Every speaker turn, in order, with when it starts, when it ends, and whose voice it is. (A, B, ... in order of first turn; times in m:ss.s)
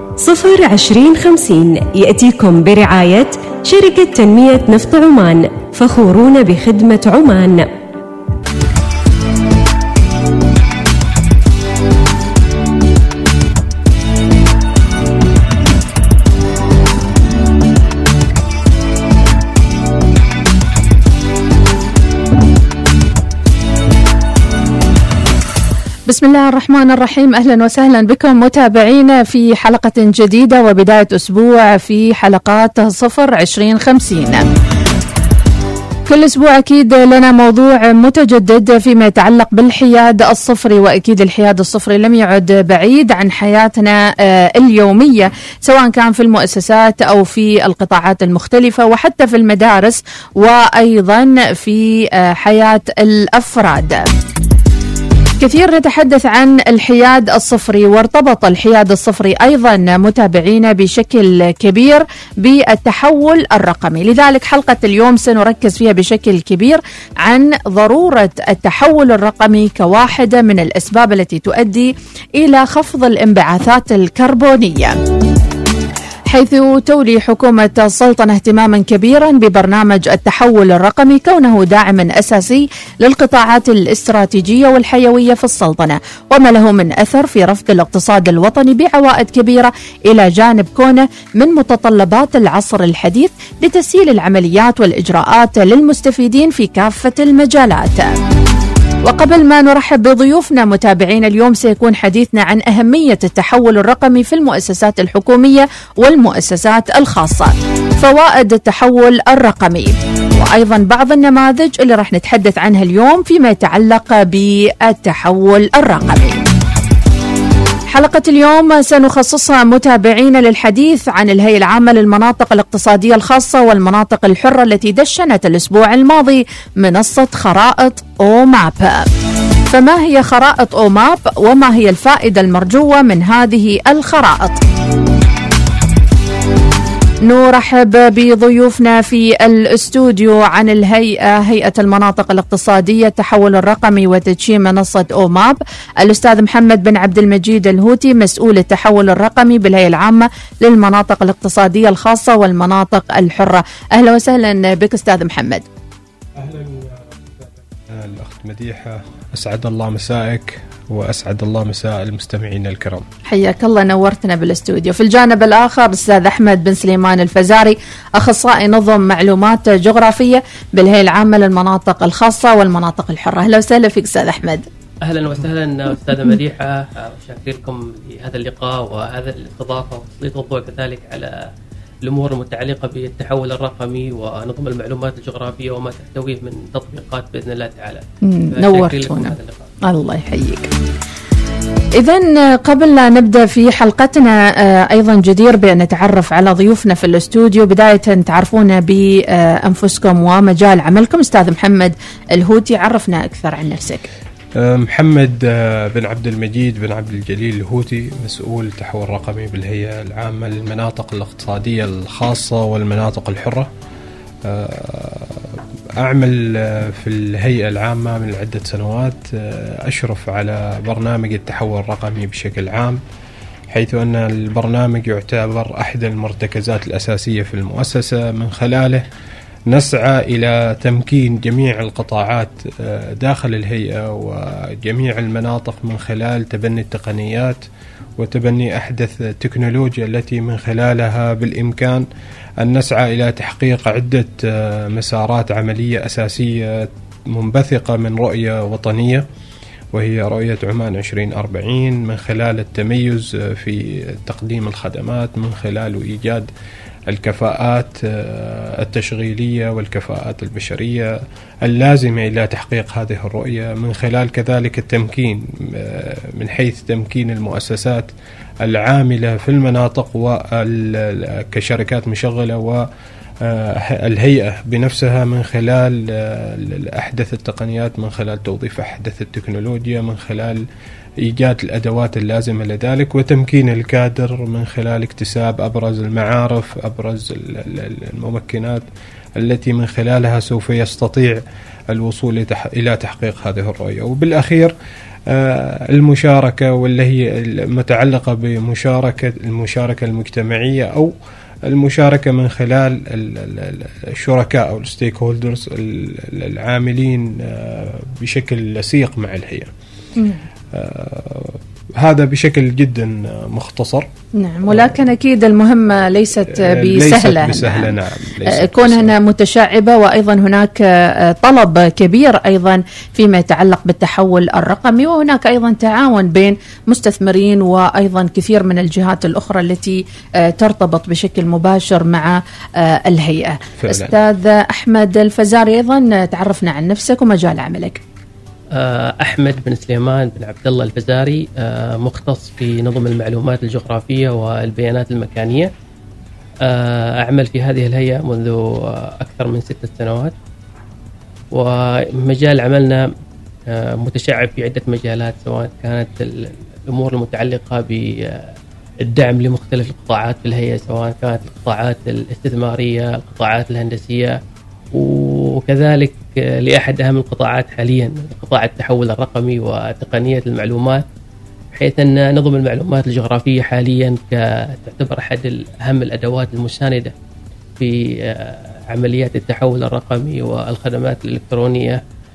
0:00.2-0:07.7 A
0:26.1-0:34.5 B
0:36.1-0:54.1 B
0:55.4-1:15.0 B
1:16.3-1:38.2 B
1:39.0-1:56.5 B
1:57.9-2:09.1 B
2:09.7-2:14.6 B
2:17.2-2:35.7 B
2:36.4-2:43.1 C
2:43.2-2:54.7 B
2:55.0-3:01.5 D
3:02.0-3:09.7 D
3:08.2-3:10.7 B
3:12.0-3:24.1 B
3:24.5-3:33.7 C
3:34.4-3:43.0 C
3:43.7-3:49.0 C
3:49.7-3:57.6 C
3:58.2-4:02.1 C
4:02.6-4:09.2 C
4:09.9-4:16.5 C
4:17.1-4:28.1 C
4:28.6-4:32.9 C
4:33.4-4:40.6 C
4:41.2-4:48.8 C
4:49.4-4:54.7 C
4:55.3-5:01.1 C
5:01.6-5:09.7 C
5:10.2-5:10.4 B
5:10.7-5:14.1 C
5:14.4-5:17.9 B
5:14.6-5:15.0 C
5:16.4-5:19.1 C
5:18.4-5:38.0 B
5:33.8-5:34.2 C
5:38.7-5:45.7 D
5:46.6-5:50.3 D
5:51.5-5:53.1 D
5:53.7-6:04.4 D
6:04.9-6:11.0 D
6:11.7-6:17.1 D
6:17.8-6:22.0 D